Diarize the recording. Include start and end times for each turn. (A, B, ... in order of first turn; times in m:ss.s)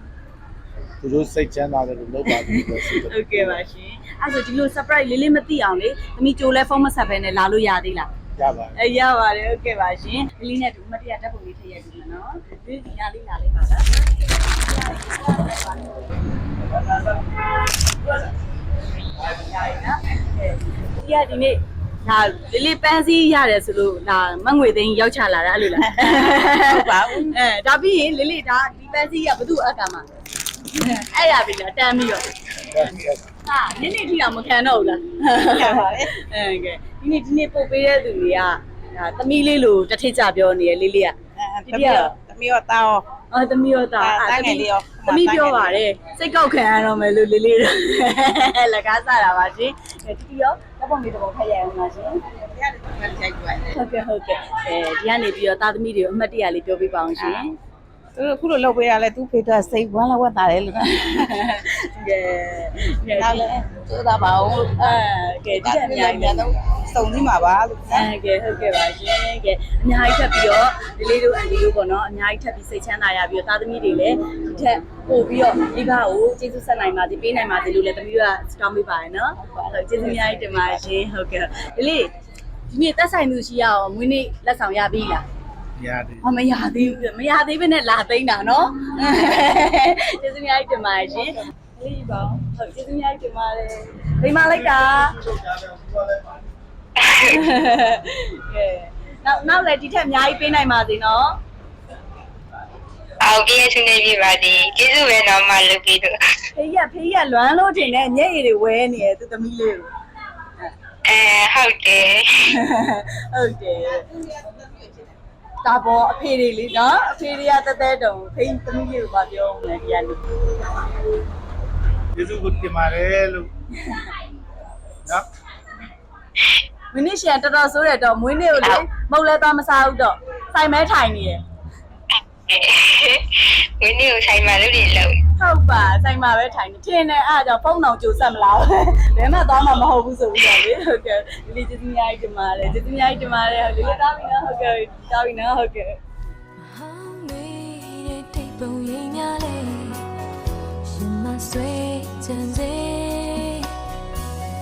0:01.0-0:03.6 A
0:02.3-0:08.1 B
0:08.4-0:08.8 A
0:08.8-0:16.1 B
0:19.2-0:30.0 B
0:26.0-0:27.4 C
0:30.7-0:32.2 B
0:32.7-0:33.2 A
0:33.4-0:42.1 B
0:35.5-0:36.1 C
0:41.7-0:43.1 C
0:43.3-0:52.1 B
0:44.0-0:45.8 C
0:52.5-0:53.7 C
0:53.7-0:57.6 B
0:58.2-1:00.9 C
1:00.8-1:03.8 B
1:03.2-1:04.6 C
1:04.6-1:06.5 B
1:05.5-1:08.1 C
1:07.9-1:22.1 B
1:22.7-1:25.2 B
1:25.8-1:26.2 A
1:26.2-1:35.5 B
1:37.1-1:41.4 B
1:43.2-1:46.1 D
1:46.6-1:49.9 B
1:51.1-1:52.3 D
1:52.6-1:54.1 B
1:55.6-2:00.4 B
2:02.2-2:03.5 A
2:06.9-2:11.4 B
2:12.5-2:13.2 D
2:13.8-2:15.1 D
2:15.4-2:26.0 B
2:26.6-2:30.1 E
2:30.8-2:33.7 E